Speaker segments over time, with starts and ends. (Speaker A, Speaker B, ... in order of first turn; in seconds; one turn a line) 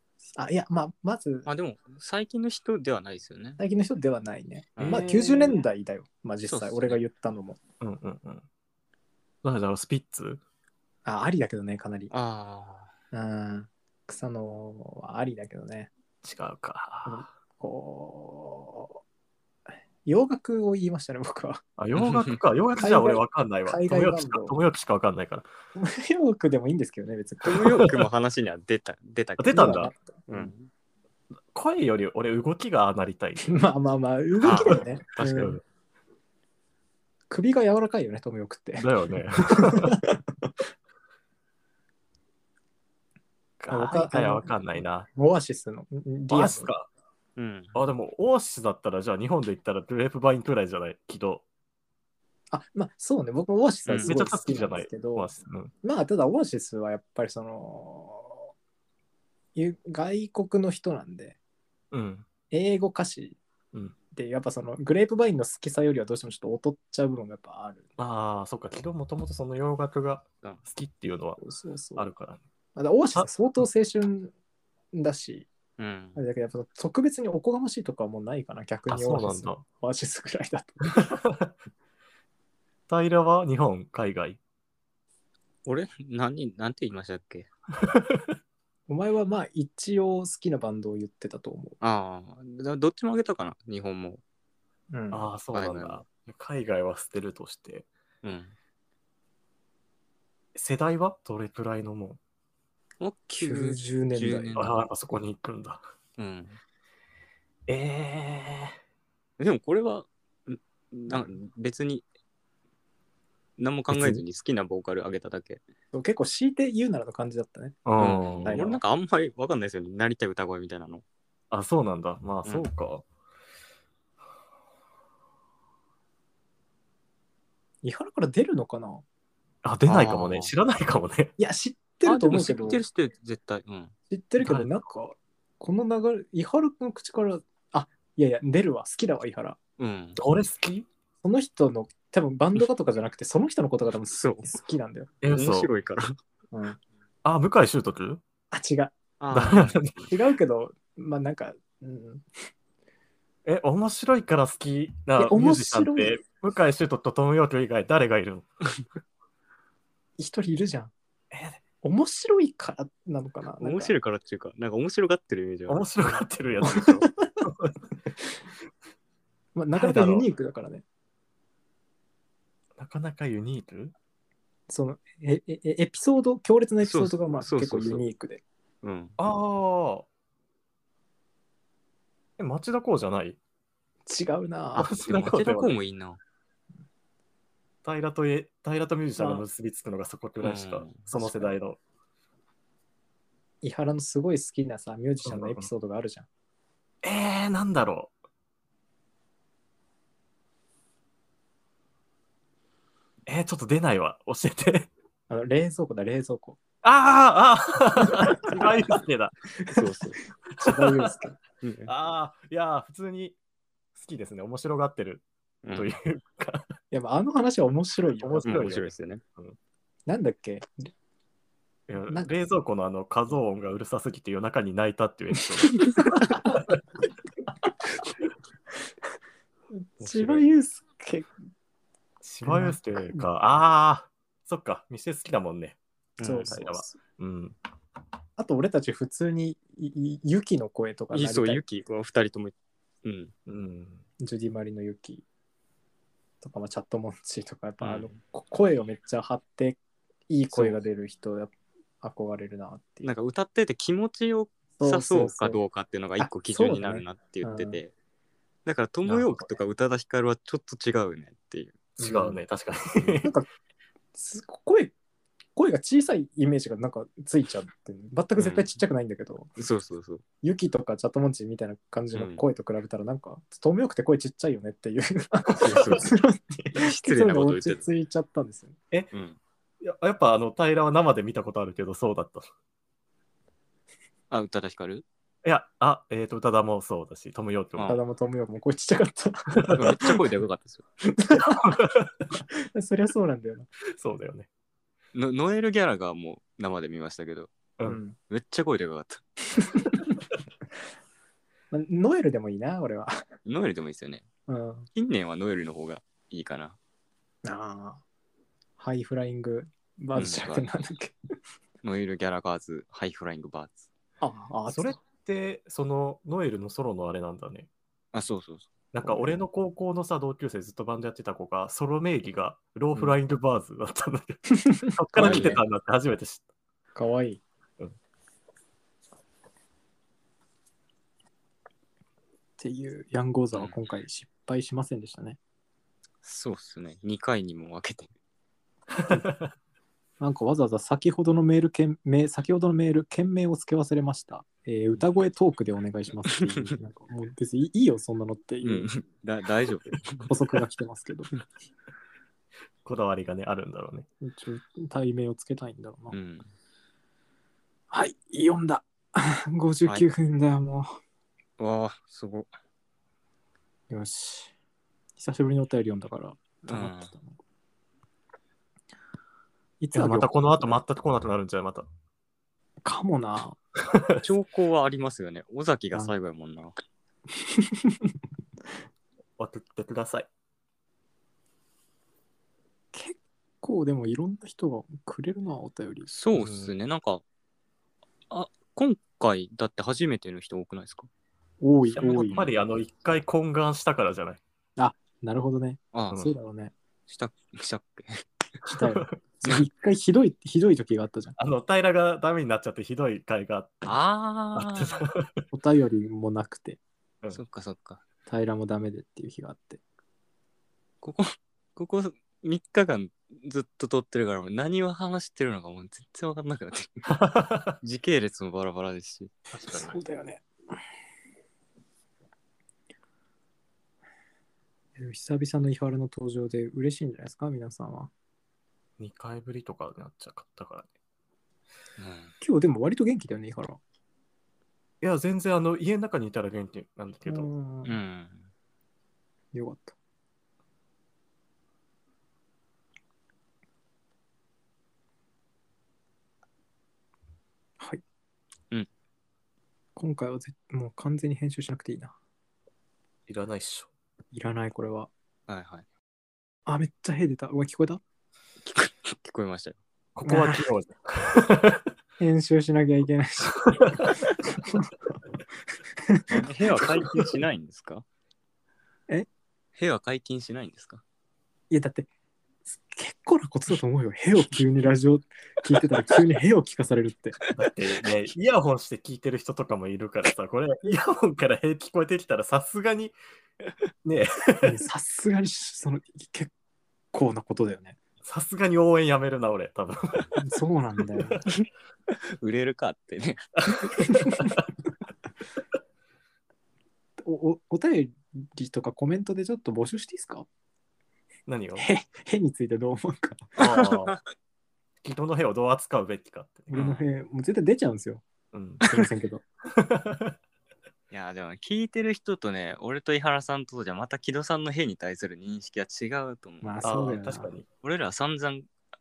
Speaker A: 0.3-1.5
Speaker B: 1.4-3.6
Speaker A: 3.6-7.6
Speaker B: 4.8-5.6
Speaker C: 4.8-5.4
Speaker B: 6.5-7.0
Speaker C: 7.8-8.4
Speaker C: 9.4-10.4
Speaker A: 11.0-12.1
Speaker B: 12.1-12.9
Speaker A: 13.1-15.9
Speaker C: 16.2-17.2
Speaker A: 17.1-19.0
Speaker A: 20.0-21.6
Speaker C: 21.8-25.5
Speaker B: 22.0-22.4
Speaker A: 22.8-24.6
Speaker A: 25.8-27.9
Speaker B: 27.4-30.7
Speaker C: 29.4-29.9
Speaker A: 29.5-30.5
Speaker C: 31.5-33.6
Speaker A: 33.4-35.6
Speaker B: 34.4-35.5
Speaker C: 35.2-35.6
Speaker A: 37.3-38.9
Speaker C: 38.8-40.0
Speaker A: 39.4-40.5
Speaker C: 43.6-45.1
Speaker A: 43.7-44.5
Speaker A: 45.1-46.7
Speaker C: 46.3-46.9
Speaker B: 47.4-47.8
Speaker C: 47.7-51.4
Speaker A: 52.5-58.5
Speaker B: 53.9-54.1
Speaker C: 54.0-55.7
Speaker A: 59.5-61.4
Speaker C: 61.9-62.3
Speaker A: 62.5-63.4
Speaker A: 64.1-67.8
Speaker C: 68.0-71.4
Speaker A: 71.4-72.1
Speaker C: 72.0-72.4
Speaker A: 72.8-74.3
Speaker A: 74.9-75.5
Speaker B: 75.8-76.2
Speaker A: 76.2-81.1
Speaker C: 78.9-79.6
Speaker C: 81.0-81.5
Speaker C: 82.9-84.4
Speaker B: 85.7-87.5
Speaker C: 87.8-88.3
Speaker A: 88.9-91.8
Speaker B: 91.8-94.2
Speaker A: 94.9-95.2
Speaker C: 95.1-97.9
Speaker B: 95.5-96.0
Speaker B: 98.2-98.5
Speaker C: 100.5-102.2
Speaker B: 103.0-104.8
Speaker A: 103.4-104.6
Speaker C: 104.5-105.8
Speaker B: 106.2-106.6
Speaker C: 107.7-108.8
Speaker B: 109.4-112.0
Speaker B: 113.6-115.6
Speaker C: 113.9-114.2
Speaker A: 115.9-118.8
Speaker C: 117.8-118.6
Speaker B: 118.0-121.0
Speaker C: 121.5-123.0
Speaker A: 127.8-129.0
Speaker C: 129.6-131.3
Speaker B: 129.9-130.5
Speaker A: 131.4-132.8
Speaker B: 132.0-133.9
Speaker A: 134.1-139.6
Speaker C: 134.4-134.7
Speaker B: 139.8-140.2
Speaker C: 140.2-140.9
Speaker A: 141.2-145.1
Speaker B: 144.2-144.5
Speaker C: 145.2-145.7
Speaker B: 145.3-146.2
Speaker A: 146.5-146.8
Speaker C: 147.2-148.2
Speaker A: 148.5-148.9
Speaker B: 149.2-149.8
Speaker C: 149.3-150.1
Speaker A: 150.1-152.2
Speaker C: 153.4-158.5
Speaker A: 155.2-156.2
Speaker A: 160.2-160.9
Speaker C: 161.3-161.6
Speaker A: 161.8-163.9
Speaker B: 163.6-165.9
Speaker C: 165.7-167.8
Speaker A: 166.6-167.1
Speaker A: 169.5-170.8
Speaker C: 169.7-170.3
Speaker C: 172.8-173.9
Speaker A: 174.7-178.4
Speaker B: 176.8-178.0
Speaker B: 178.8-179.1
Speaker C: 179.2-180.1
Speaker C: 182.4-183.4
Speaker A: 184.1-184.9
Speaker C: 184.8-185.8
Speaker B: 185.0-186.2
Speaker C: 187.8-191.8
Speaker A: 189.2-189.4
Speaker B: 190.4-191.0
Speaker A: 191.2-191.5
Speaker A: 193.6-196.3
Speaker C: 195.2-195.7
Speaker C: 197.0-198.1
Speaker C: 203.2-204.9
Speaker A: 205.3-206.6
Speaker C: 206.8-209.3
Speaker A: 208.1-208.7
Speaker B: 209.7-210.2
Speaker C: 210.5-211.1
Speaker A: 210.6-211.4
Speaker B: 211.6-211.9
Speaker C: 211.9-213.3
Speaker C: 214.0-216.7
Speaker B: 215.6-215.9
Speaker A: 216.9-218.7
Speaker C: 218.2-219.6
Speaker B: 218.4-219.2
Speaker A: 220.1-220.9
Speaker C: 221.9-226.8
Speaker A: 225.6-226.6
Speaker A: 229.7-231.3
Speaker C: 230.0-230.5
Speaker C: 232.2-235.8
Speaker A: 232.4-233.2
Speaker B: 236.2-236.6
Speaker A: 236.2-237.0
Speaker C: 236.4-237.6
Speaker A: 238.4-241.6
Speaker B: 241.1-243.3
Speaker C: 243.5-244.0
Speaker A: 244.2-245.2
Speaker A: 246.4-253.1
Speaker B: 247.8-248.1
Speaker B: 250.5-250.8
Speaker B: 253.0-257.9
Speaker A: 254.8-255.6
Speaker A: 256.2-257.8
Speaker B: 258.6-262.4
Speaker C: 259.1-259.4
Speaker C: 262.0-263.3
Speaker A: 263.2-263.5
Speaker A: 264.1-264.9
Speaker A: 265.6-269.5
Speaker B: 268.4-268.8
Speaker B: 269.6-270.2
Speaker A: 270.4-278.8
Speaker B: 272.1-272.4
Speaker B: 275.6-276.1
Speaker B: 276.8-277.8
Speaker B: 279.1-279.4
Speaker C: 279.8-282.5
Speaker B: 284.3-285.0
Speaker C: 285.4-287.9
Speaker B: 287.8-288.0
Speaker A: 287.8-290.0
Speaker C: 289.6-289.9
Speaker B: 289.8-290.8
Speaker A: 291.1-291.8
Speaker C: 291.4-292.1
Speaker A: 292.5-293.7
Speaker C: 293.9-294.5
Speaker B: 295.1-297.5
Speaker A: 297.8-298.1
Speaker B: 298.2-299.2
Speaker A: 299.6-300.0
Speaker A: 301.7-303.2
Speaker B: 303.4-304.2
Speaker A: 304.5-304.9
Speaker B: 304.9-306.8
Speaker A: 307.4-308.0
Speaker A: 308.8-311.1
Speaker B: 310.1-310.7
Speaker B: 311.8-313.9
Speaker A: 314.2-315.0
Speaker C: 314.7-317.7
Speaker B: 318.1-318.7
Speaker C: 318.9-326.4
Speaker A: 324.5-325.6
Speaker B: 325.2-325.6
Speaker A: 326.9-327.4
Speaker A: 332.6-335.4
Speaker B: 336.2-338.1
Speaker C: 339.0-339.5
Speaker A: 340.2-348.9
Speaker B: 346.3-346.8
Speaker B: 348.6-350.3
Speaker A: 350.3-351.3
Speaker C: 352.8-354.1
Speaker A: 354.2-356.1
Speaker B: 356.1-356.5
Speaker A: 357.9-361.0
Speaker B: 361.6-362.5
Speaker A: 363.9-364.5
Speaker A: 365.2-367.4
Speaker B: 366.7-367.1
Speaker A: 369.8-370.3
Speaker C: 369.9-371.9
Speaker A: 372.8-373.6
Speaker C: 373.9-374.2
Speaker B: 374.2-376.8
Speaker A: 377.4-378.1
Speaker C: 379.4-380.3
Speaker A: 382.9-386.1
Speaker B: 386.1-387.2
Speaker C: 386.3-386.7
Speaker B: 388.3-391.1
Speaker A: 391.6-392.4
Speaker B: 391.9-392.5
Speaker C: 392.1-394.4
Speaker A: 394.8-396.7
Speaker B: 395.9-396.3
Speaker B: 397.1-398.2
Speaker A: 398.7-401.4
Speaker C: 398.8-399.1
Speaker C: 401.4-404.0
Speaker B: 403.9-405.1
Speaker C: 404.5-405.3
Speaker A: 405.5-406.8
Speaker B: 407.3-408.0
Speaker A: 408.3-409.8
Speaker B: 411.0-417.1
Speaker C: 417.1-417.8
Speaker B: 417.8-419.3
Speaker C: 419.5-420.0
Speaker A: 419.7-420.4
Speaker A: 425.0-428.1
Speaker C: 429.0-430.9
Speaker B: 432.0-432.3
Speaker A: 432.4-433.8
Speaker C: 435.0-437.5
Speaker A: 437.2-437.9
Speaker B: 437.8-438.4
Speaker A: 439.5-439.9
Speaker A: 449.9-452.1
Speaker C: 453.3-453.9
Speaker A: 454.3-455.1
Speaker B: 455.5-455.9
Speaker A: 456.7-458.0
Speaker B: 458.6-459.8
Speaker C: 460.1-461.9
Speaker A: 460.2-460.6
Speaker A: 462.2-464.9
Speaker C: 463.8-464.1
Speaker A: 466.0-467.1
Speaker B: 466.3-468.0
Speaker B: 469.8-471.0
Speaker A: 471.7-472.1
Speaker A: 472.7-477.4
Speaker B: 477.4-477.7
Speaker C: 477.6-483.2
Speaker C: 484.0-484.8
Speaker A: 484.6-486.5
Speaker A: 487.1-488.0
Speaker C: 488.2-490.4
Speaker A: 490.4-491.4
Speaker C: 491.1-491.4
Speaker B: 492.4-494.0
Speaker C: 493.7-494.6
Speaker A: 494.0-494.5
Speaker A: 497.2-500.5
Speaker C: 501.5-501.9
Speaker A: 501.8-504.0
Speaker C: 503.6-504.2
Speaker C: 505.0-506.8
Speaker A: 506.7-508.2
Speaker B: 506.7-507.1
Speaker C: 508.5-508.8
Speaker A: 508.8-509.4
Speaker C: 509.7-510.3
Speaker B: 511.1-517.1
Speaker A: 516.6-517.6
Speaker C: 516.8-517.6
Speaker B: 517.8-518.7